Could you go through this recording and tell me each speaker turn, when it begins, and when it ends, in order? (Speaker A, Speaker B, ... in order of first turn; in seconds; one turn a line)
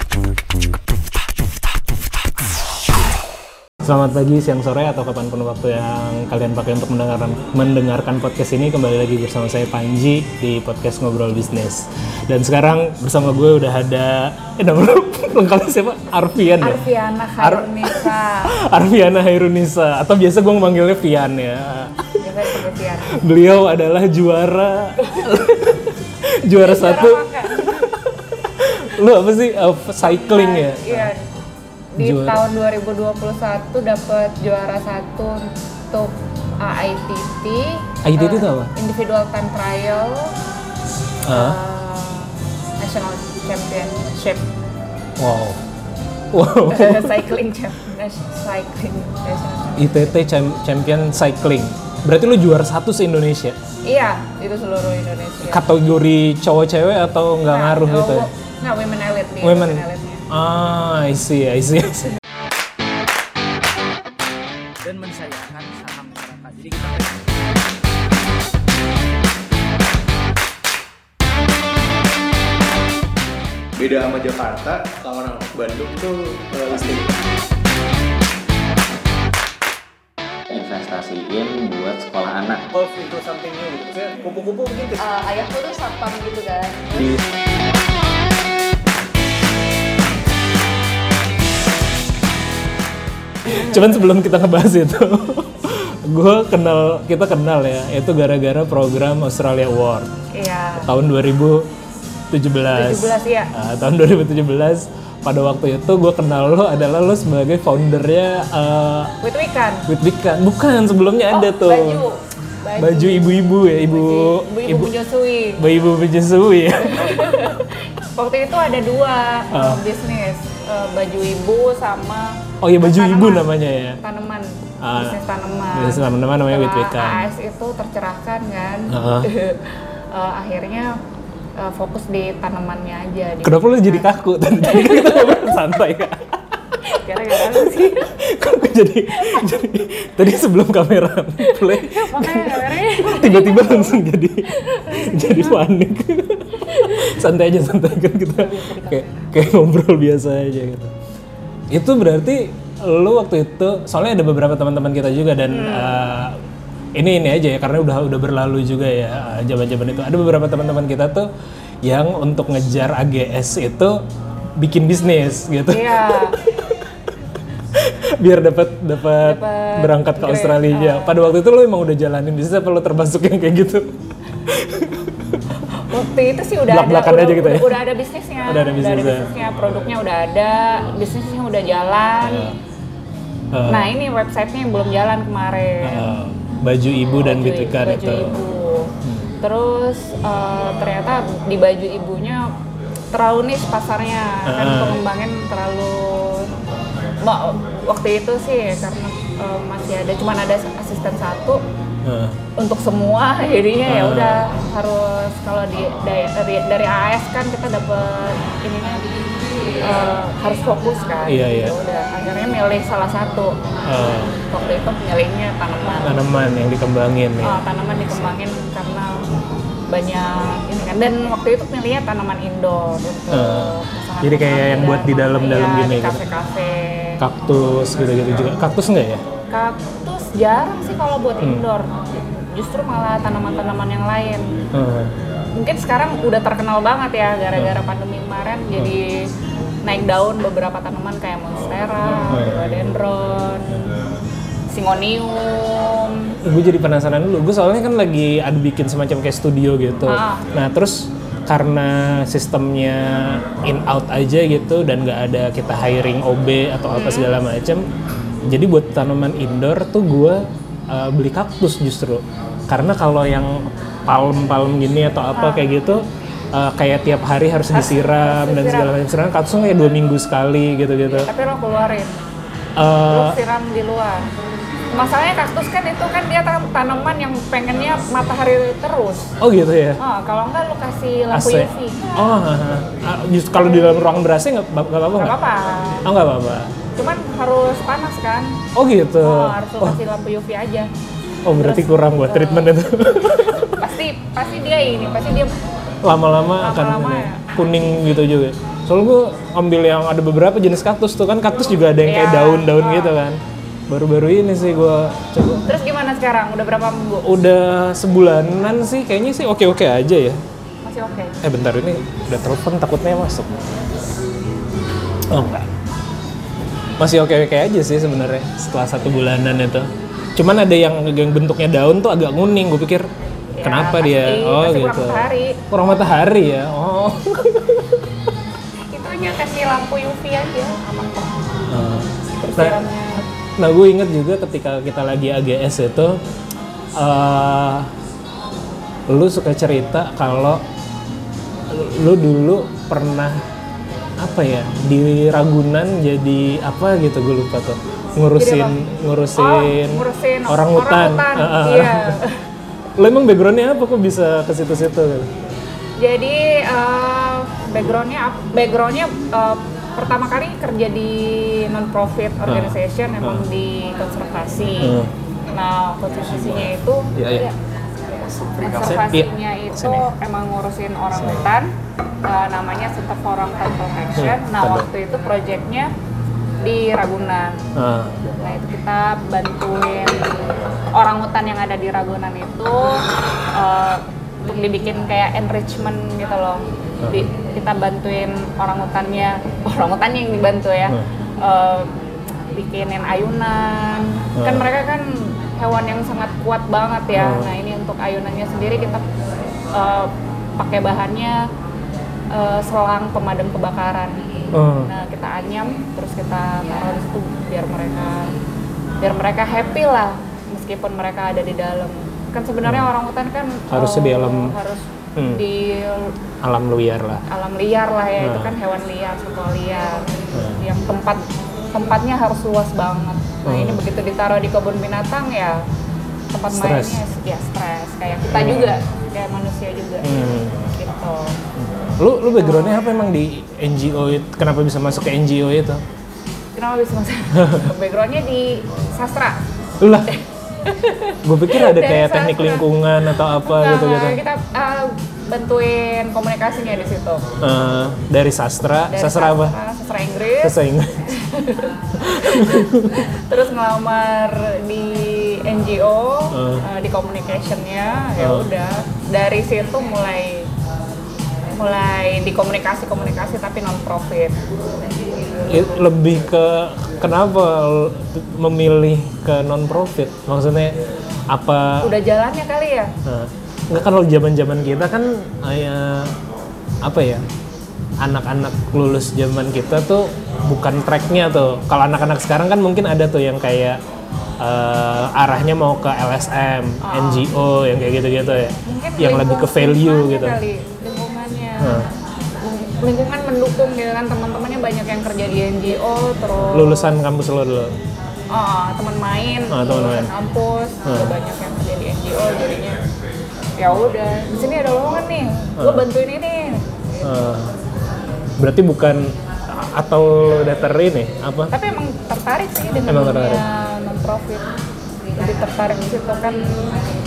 Speaker A: 3.8-16.8
Speaker B: 16.6-18.6
Speaker A: 17.4-22.0
Speaker B: 22.2-23.2
Speaker A: 23.1-27.9
Speaker B: 26.6-27.9
Speaker A: 28.6-31.1
Speaker B: 30.0-31.3
Speaker B: 31.9-40.3
Speaker A: 32.0-32.4
Speaker A: 38.0-38.7
Speaker A: 41.2-41.6
Speaker B: 41.3-44.5
Speaker A: 45.2-45.6
Speaker A: 46.3-47.2
Speaker B: 46.7-50.1
Speaker A: 49.8-53.6
Speaker B: 53.8-55.7
Speaker A: 55.4-58.3
Speaker B: 57.5-60.3
Speaker A: 59.4-62.2
Speaker C: 64.8-67.2
Speaker D: 73.8-77.1
Speaker E: 80.5-82.6
Speaker D: 82.7-85.0
Speaker B: 85.0-87.1
Speaker A: 93.4-100.1
Speaker B: 100.3-100.9
Speaker A: 100.8-101.7
Speaker A: 102.3-109.1
Speaker B: 102.7-103.5
Speaker B: 109.2-109.9
Speaker A: 109.9-112.0
Speaker B: 111.3-115.6
Speaker A: 112.8-114.9
Speaker A: 115.6-117.6
Speaker B: 116.8-131.0
Speaker A: 119.5-119.8
Speaker A: 122.6-124.0
Speaker A: 124.8-125.2
Speaker A: 125.7-127.3
Speaker A: 128.9-129.3
Speaker B: 131.6-134.1
Speaker A: 133.4-136.4
Speaker B: 134.6-135.3
Speaker B: 136.9-138.1
Speaker A: 137.3-150.9
Speaker B: 139.2-139.5
Speaker B: 141.4-144.0
Speaker B: 144.5-145.6
Speaker B: 146.6-147.1
Speaker B: 148.3-149.3
Speaker A: 151.7-156.4
Speaker B: 155.5-156.0
Speaker A: 156.9-161.3
Speaker A: 161.8-164.0
Speaker A: 164.6-166.8
Speaker B: 165.7-166.4
Speaker A: 167.7-175.4
Speaker B: 169.2-171.2
Speaker B: 175.8-182.5
Speaker A: 176.7-177.8
Speaker A: 178.5-179.3
Speaker A: 182.2-182.6
Speaker A: 183.5-183.9
Speaker B: 183.7-186.1
Speaker A: 185.8-188.4
Speaker B: 187.2-192.5
Speaker B: 193.1-196.5
Speaker A: 194.5-195.0
Speaker B: 197.2-201.6
Speaker A: 202.0-202.4
Speaker B: 202.6-209.1
Speaker A: 203.8-204.5
Speaker B: 209.8-213.6
Speaker A: 211.3-211.8
Speaker A: 213.9-214.4
Speaker B: 214.4-216.2
Speaker A: 216.0-218.3
Speaker B: 217.4-219.3
Speaker B: 219.9-227.2
Speaker A: 223.3-226.2
Speaker A: 227.2-229.2
Speaker B: 229.5-234.6
Speaker A: 234.7-235.2
Speaker B: 235.6-239.3
Speaker B: 239.8-243.9
Speaker A: 242.1-243.0
Speaker B: 244.7-246.4
Speaker A: 246.4-257.8
Speaker B: 250.1-250.5
Speaker B: 256.9-257.3
Speaker A: 258.5-271.3
Speaker B: 265.3-265.7
Speaker B: 267.7-268.9
Speaker B: 271.1-272.1
Speaker A: 272.8-273.4
Speaker B: 273.1-274.3
Speaker B: 274.9-279.3
Speaker A: 279.4-280.0
Speaker B: 280.0-282.4
Speaker A: 281.3-285.4
Speaker B: 283.6-284.0
Speaker B: 285.2-286.0
Speaker A: 286.0-286.7
Speaker B: 286.9-288.6
Speaker A: 288.8-290.0
Speaker B: 289.2-290.9
Speaker A: 291.4-293.8
Speaker B: 291.5-292.7
Speaker B: 293.7-295.5
Speaker A: 296.0-305.7
Speaker B: 296.6-297.4
Speaker B: 302.0-303.1
Speaker B: 305.6-307.3
Speaker A: 307.2-310.4
Speaker B: 310.8-311.4
Speaker A: 311.4-313.6
Speaker A: 315.3-315.7
Speaker A: 317.0-323.1
Speaker B: 323.5-325.6
Speaker A: 323.6-328.0
Speaker B: 328.9-331.3
Speaker A: 331.7-336.2
Speaker B: 332.3-333.2
Speaker A: 336.9-337.9
Speaker A: 339.1-340.6
Speaker A: 341.7-343.4
Speaker A: 344.2-352.2
Speaker B: 348.4-348.8
Speaker B: 349.3-352.4
Speaker A: 353.0-355.3
Speaker B: 356.0-365.0
Speaker A: 362.4-363.4
Speaker A: 364.8-365.1
Speaker B: 365.5-367.6
Speaker A: 366.4-366.6
Speaker A: 367.1-367.4
Speaker B: 368.2-371.7
Speaker A: 368.6-370.1
Speaker B: 372.2-375.9
Speaker A: 374.1-374.9
Speaker B: 376.6-377.6
Speaker A: 377.8-378.2
Speaker B: 378.4-380.4
Speaker B: 380.9-391.9
Speaker B: 392.5-399.0
Speaker A: 394.4-394.6
Speaker A: 397.1-397.5
Speaker B: 399.7-401.5
Speaker B: 402.3-404.2
Speaker A: 404.5-404.9
Speaker B: 404.9-408.3
Speaker B: 409.0-416.1
Speaker A: 412.6-412.9
Speaker A: 413.7-414.5
Speaker A: 415.1-415.4
Speaker A: 416.4-417.2
Speaker B: 417.3-421.2
Speaker A: 418.2-418.5
Speaker A: 420.3-420.6
Speaker B: 421.7-425.6
Speaker A: 423.4-423.8
Speaker B: 426.3-431.4
Speaker A: 426.5-427.0
Speaker A: 428.3-428.8
Speaker A: 430.0-430.7
Speaker A: 431.6-435.8
Speaker B: 432.2-433.1
Speaker B: 436.6-439.4
Speaker A: 437.4-437.6
Speaker A: 439.8-440.1
Speaker B: 440.0-442.6
Speaker A: 441.2-444.2
Speaker B: 443.4-447.2
Speaker A: 447.4-449.5
Speaker B: 448.9-460.5
Speaker A: 450.4-451.1
Speaker A: 452.0-453.1
Speaker A: 456.3-456.6
Speaker A: 458.2-458.5
Speaker B: 461.5-464.4
Speaker A: 465.5-470.8
Speaker A: 471.3-471.9
Speaker B: 471.8-472.9
Speaker A: 473.0-476.1
Speaker A: 476.8-477.2
Speaker A: 478.0-483.8
Speaker A: 484.4-490.4
Speaker B: 486.8-487.3
Speaker B: 488.6-491.9
Speaker A: 491.6-491.9
Speaker B: 492.4-496.9
Speaker A: 496.4-497.7
Speaker B: 498.3-502.8
Speaker A: 499.5-500.1
Speaker A: 500.8-501.1
Speaker B: 503.6-506.6
Speaker A: 505.6-505.8
Speaker A: 507.0-507.5
Speaker A: 508.4-511.5
Speaker B: 511.5-514.5
Speaker A: 512.9-513.4
Speaker B: 515.1-516.8